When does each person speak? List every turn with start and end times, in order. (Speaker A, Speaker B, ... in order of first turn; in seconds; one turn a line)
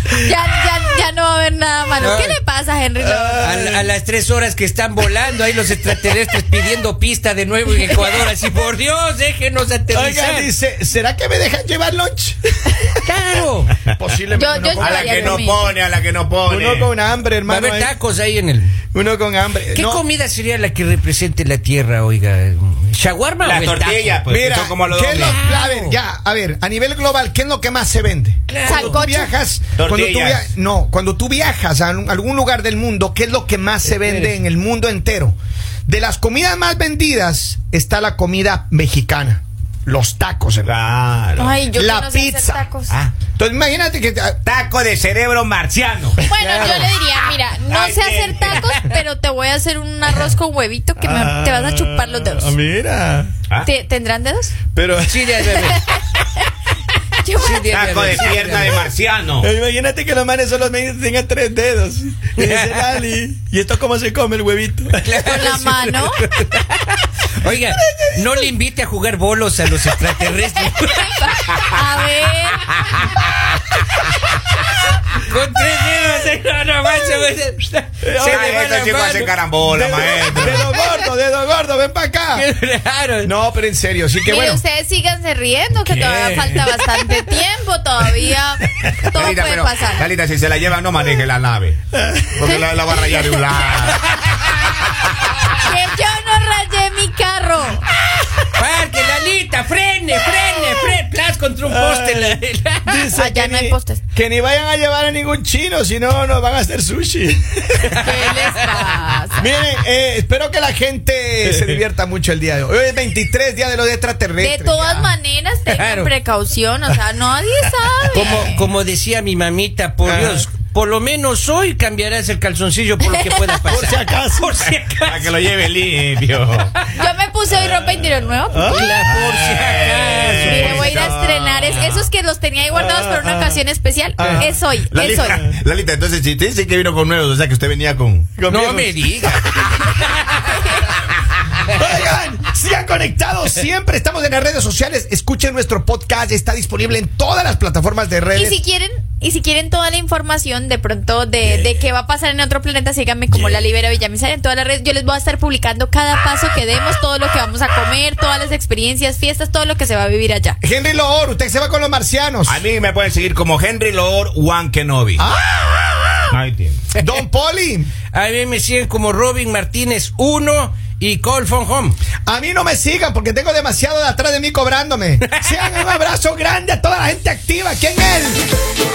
Speaker A: 0.1-3.4
Speaker B: 2.0-2.4
Speaker C: 3.0-3.9
Speaker B: 3.4-10.5
Speaker C: 9.9-13.0
Speaker B: 13.0-13.7
Speaker C: 13.9-15.4
Speaker A: 14.3-15.8
Speaker D: 14.8-16.9
Speaker C: 16.5-17.9
Speaker B: 17.4-18.8
Speaker C: 18.9-20.0
Speaker B: 19.7-24.2
Speaker D: 23.4-25.4
Speaker C: 24.3-40.7
Speaker B: 25.2-26.0
Speaker B: 28.5-29.1
Speaker A: 28.7-29.3
Speaker D: 29.8-30.5
Speaker B: 33.9-34.4
Speaker D: 40.6-41.6
Speaker A: 41.4-42.9
Speaker C: 41.7-42.6
Speaker C: 43.4-44.4
Speaker D: 44.5-48.7
Speaker A: 46.3-52.5
Speaker B: 46.5-46.9
Speaker B: 48.5-48.8
Speaker C: 51.0-53.3
Speaker A: 53.6-54.5
Speaker C: 54.7-55.5
Speaker B: 55.0-55.8
Speaker A: 55.7-56.0
Speaker A: 57.2-57.7
Speaker B: 57.4-58.9
Speaker D: 57.5-59.5
Speaker C: 59.4-65.8
Speaker B: 62.4-63.0
Speaker B: 65.0-71.5
Speaker A: 65.3-66.2
Speaker C: 67.5-68.3
Speaker A: 70.9-72.7
Speaker B: 72.6-73.5
Speaker B: 75.0-81.0
Speaker C: 78.0-78.6
Speaker D: 78.2-80.7
Speaker C: 79.7-82.5
Speaker B: 82.3-83.3
Speaker C: 83.2-84.6
Speaker A: 84.2-90.0
Speaker B: 85.8-87.3
Speaker D: 89.0-91.8
Speaker C: 91.9-92.5
Speaker D: 92.3-95.4
Speaker A: 92.4-93.8
Speaker B: 94.0-94.8
Speaker A: 95.5-97.9
Speaker B: 98.5-103.1
Speaker C: 101.7-108.3
Speaker A: 103.1-104.0
Speaker B: 107.9-109.0
Speaker A: 108.0-109.5
Speaker C: 109.4-115.0
Speaker B: 111.5-111.8
Speaker A: 114.4-118.7
Speaker B: 115.7-116.1
Speaker B: 118.1-125.3
Speaker C: 120.0-120.5
Speaker C: 123.7-124.5
Speaker D: 125.1-126.9
Speaker A: 127.0-129.0
Speaker C: 128.5-128.9
Speaker B: 128.7-131.1
Speaker D: 129.0-132.1
Speaker A: 130.4-135.4
Speaker C: 132.7-133.6
Speaker C: 134.2-134.6
Speaker B: 134.2-134.6
Speaker D: 134.9-138.3
Speaker C: 138.4-139.5
Speaker B: 138.5-140.7
Speaker C: 141.7-148.6
Speaker A: 148.3-160.6
Speaker D: 151.5-151.8
Speaker D: 153.3-153.7
Speaker C: 160.6-162.6
Speaker D: 162.5-165.2
Speaker C: 165.2-166.3
Speaker D: 166.3-166.8
Speaker C: 167.0-167.9
Speaker B: 168.1-172.0
Speaker C: 172.3-178.4
Speaker B: 175.3-175.6